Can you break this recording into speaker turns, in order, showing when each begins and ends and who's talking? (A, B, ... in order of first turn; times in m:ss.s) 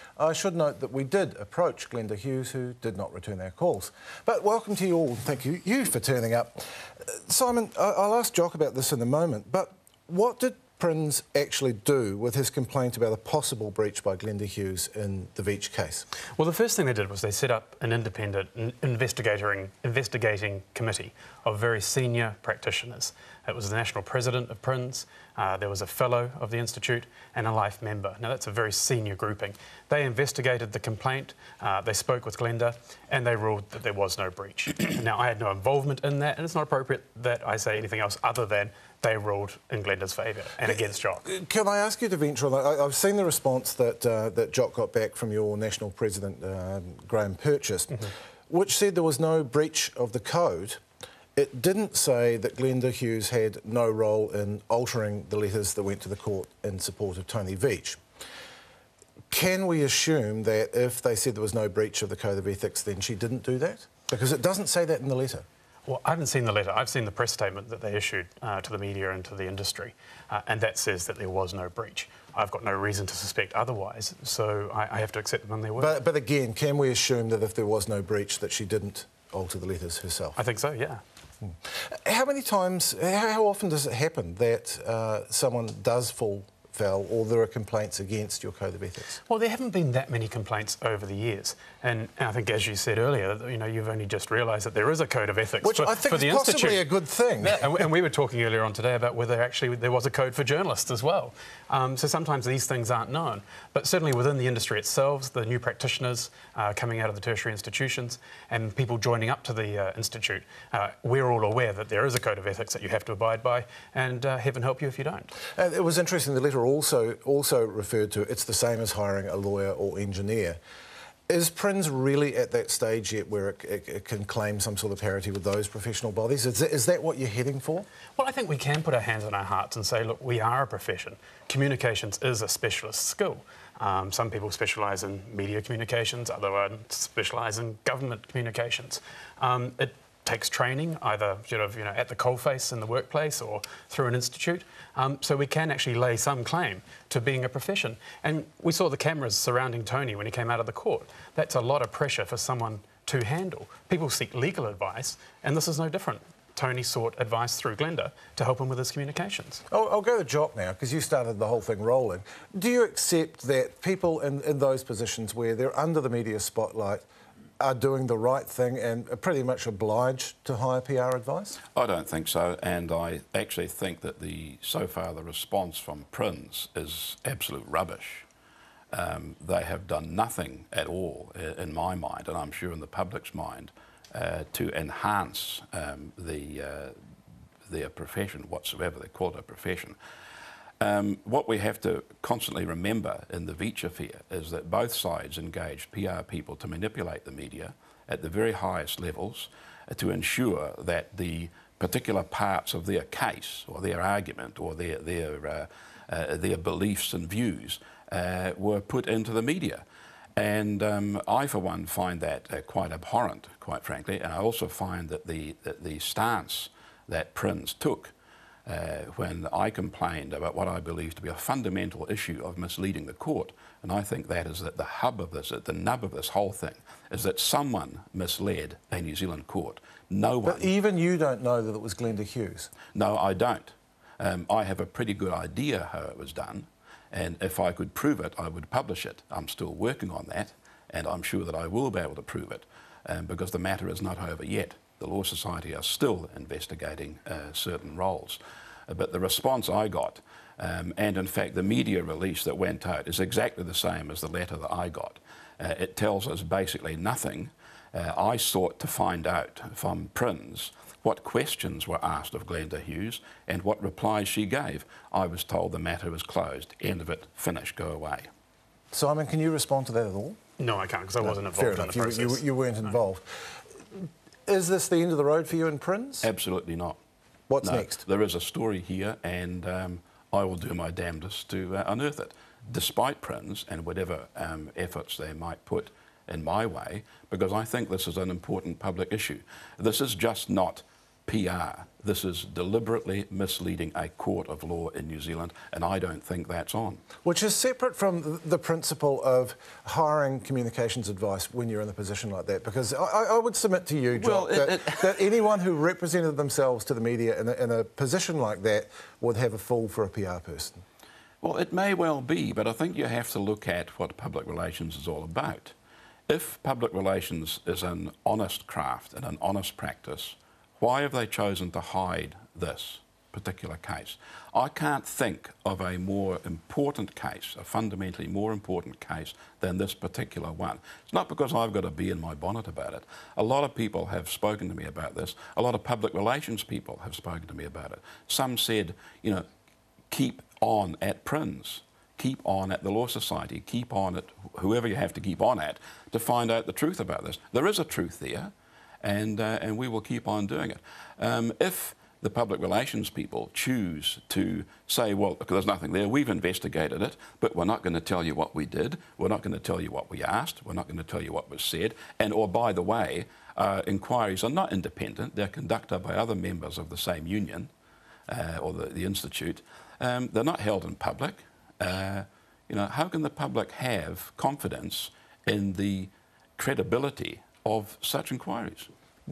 0:00.2-0:16.1 A
0:16.4-0:41.2 B
0:41.2-0:50.8 A
0:51.4-0:58.0 A
0:59.3-1:05.5 A
1:05.9-1:16.0 B
1:15.8-1:20.4 A
1:20.4-1:21.0 B
1:21.4-1:29.2 A
1:29.3-1:55.3 B
1:35.6-1:37.7 A
1:55.5-2:00.6 A
2:01.3-2:07.9 A
2:08.2-2:39.6 B
2:39.7-2:47.0 A
2:47.6-2:51.6 A
2:51.8-2:58.3 C
2:58.9-3:07.0 C
3:07.7-3:10.0 C
3:10.8-3:29.8 C
3:30.4-3:38.1 C
3:38.7-3:50.7 C
3:50.4-3:52.7 A
3:52.9-4:28.3 C
4:28.9-4:30.4 A
4:30.6-4:32.9 B
4:31.2-4:36.3 A
4:36.2-4:37.0 C
4:37.5-4:38.0 A
4:37.6-4:57.0 C
4:57.2-5:10.8 A
5:04.1-5:05.2 C
5:11.4-5:15.7 C
5:16.3-5:39.4 C
5:40.1-6:07.7 C
6:08.3-6:18.9 C